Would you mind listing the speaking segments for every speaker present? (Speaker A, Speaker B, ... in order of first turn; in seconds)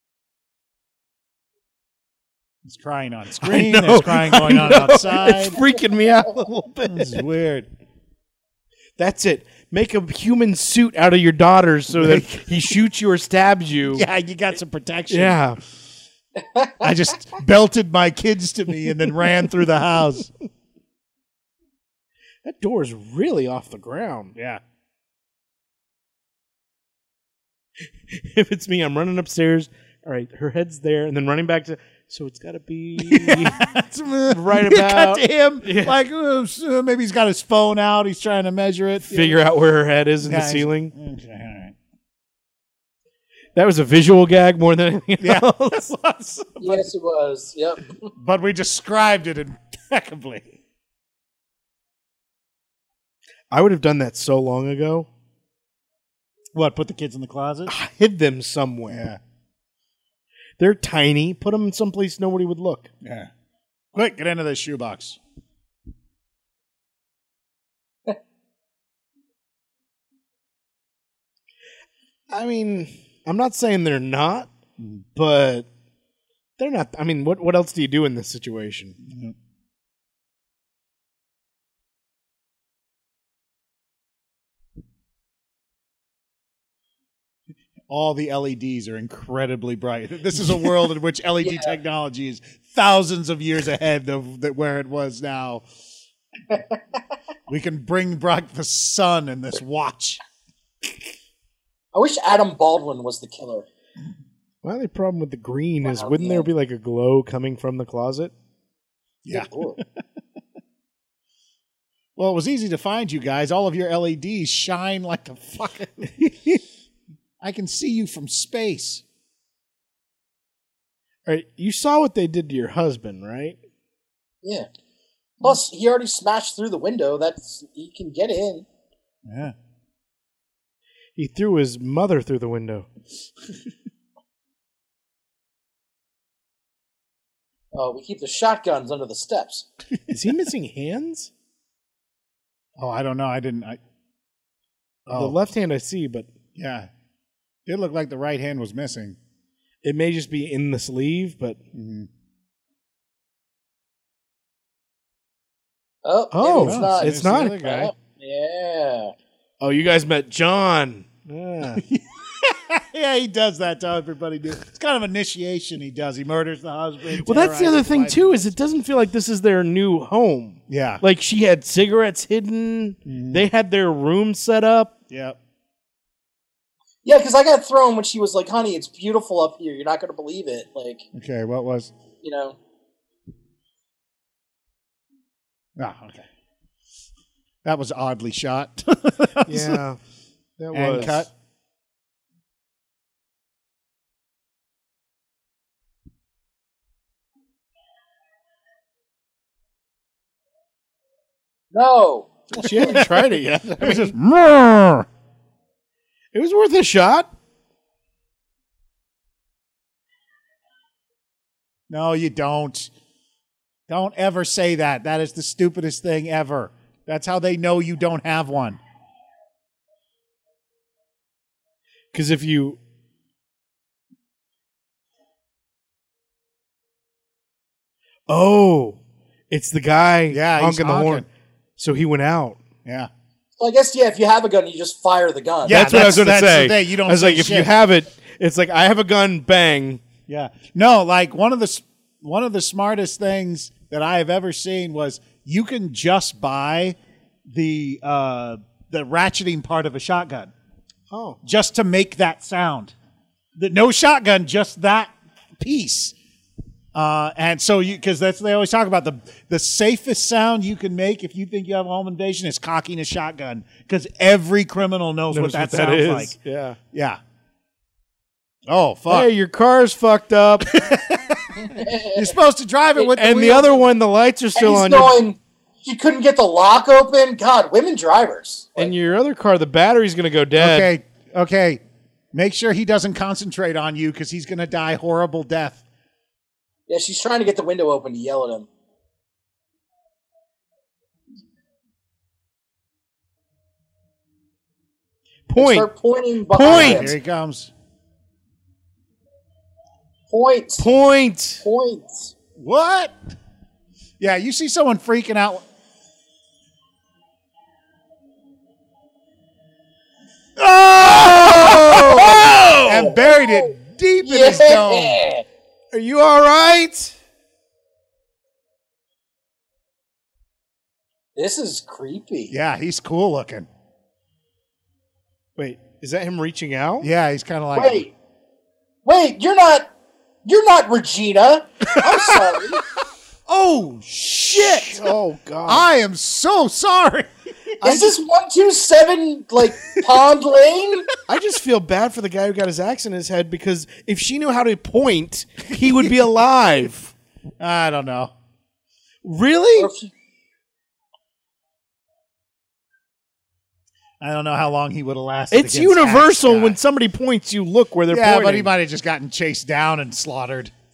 Speaker A: 2.7-5.6, 6.9-7.7, 12.0-12.5, 13.9-15.4, 16.8-20.3, 24.4-24.6, 33.0-39.4, 40.2-41.8, 45.2-46.9, 48.1-50.5, 56.6-57.7, 58.9-59.2, 63.0-63.3, 63.9-65.2, 74.8-75.0, 79.0-79.3, 87.9-95.7, 97.5-100.2, 109.2-109.8, 112.2-116.6, 117.4-119.0, 129.3-129.6, 142.8-143.8, 145.1-145.4, 146.6-146.9, 147.7-149.2, 151.7-152.1, 156.6-157.9, 161.8-168.6, 170.7-171.0, 173.1-173.5, 175.1-175.4, 181.2-181.9, 185.8-186.3, 187.6-189.8, 190.7-191.3, 202.6-203.1, 203.8-205.1, 211.9-212.9, 213.9-218.8, 230.3-231.3, 232.8-233.1, 235.7-237.7, 240.3-247.0, 247.5-250.5, 251.4-252.9, 253.6-256.1, 256.9-266.4, 266.9-267.2, 268.7-269.3, 270.7-273.8, 280.6-281.8, 282.3-285.8, 296.6-297.7, 302.6-303.1, 304.2-305.7, 310.6-315.2, 322.5-323.7, 327.0-328.1, 331.9-332.6, 333.5-335.0, 335.7-337.8, 347.6-348.3, 354.2-356.8, 358.1-360.7
Speaker B: 3.4-7.2, 9.0-14.1, 15.1-15.6, 22.4-24.3, 28.1-36.0, 39.1-40.9, 43.5-45.9, 53.5-55.1, 57.7-59.1, 60.6-62.9, 72.3-74.5, 75.2-75.7, 76.6-79.0, 104.6-108.3, 121.3-123.6, 131.2-132.9, 140.1-141.3, 145.1-146.3, 149.8-151.6, 156.3-157.7, 159.6-161.8, 167.2-174.9, 189.5-190.0, 190.6-191.3, 202.5-204.2, 206.3-207.3, 222.1-222.8, 228.3-231.2, 231.8-232.6, 235.7-240.0, 251.1-251.4, 265.3-266.8, 269.1-270.7, 273.1-275.2, 278.8-280.9, 295.5-295.9, 296.5-297.1, 300.8-301.6, 311.0-312.7, 315.9-317.2, 325.6-327.1, 334.5-335.9, 337.8-338.2, 341.3-347.1, 349.2-349.9, 355.5-358.7
Speaker C: 16.4-16.9, 46.6-48.1, 91.4-91.7, 101.9-103.7, 105.8-106.5, 109.3-109.8, 124.4-124.7, 125.4-128.7, 137.7-139.7, 156.1-159.1, 177.0-181.1, 182.2-182.6, 201.7-202.9, 233.6-235.9, 271.6-272.4, 274.6-278.9, 286.9-288.7, 295.6-297.2, 300.3-300.9, 301.6-302.3, 311.3-315.4, 321.4-322.5, 327.8-328.1, 329.1-329.9, 330.4-332.8, 337.8-341.1, 349.8-350.1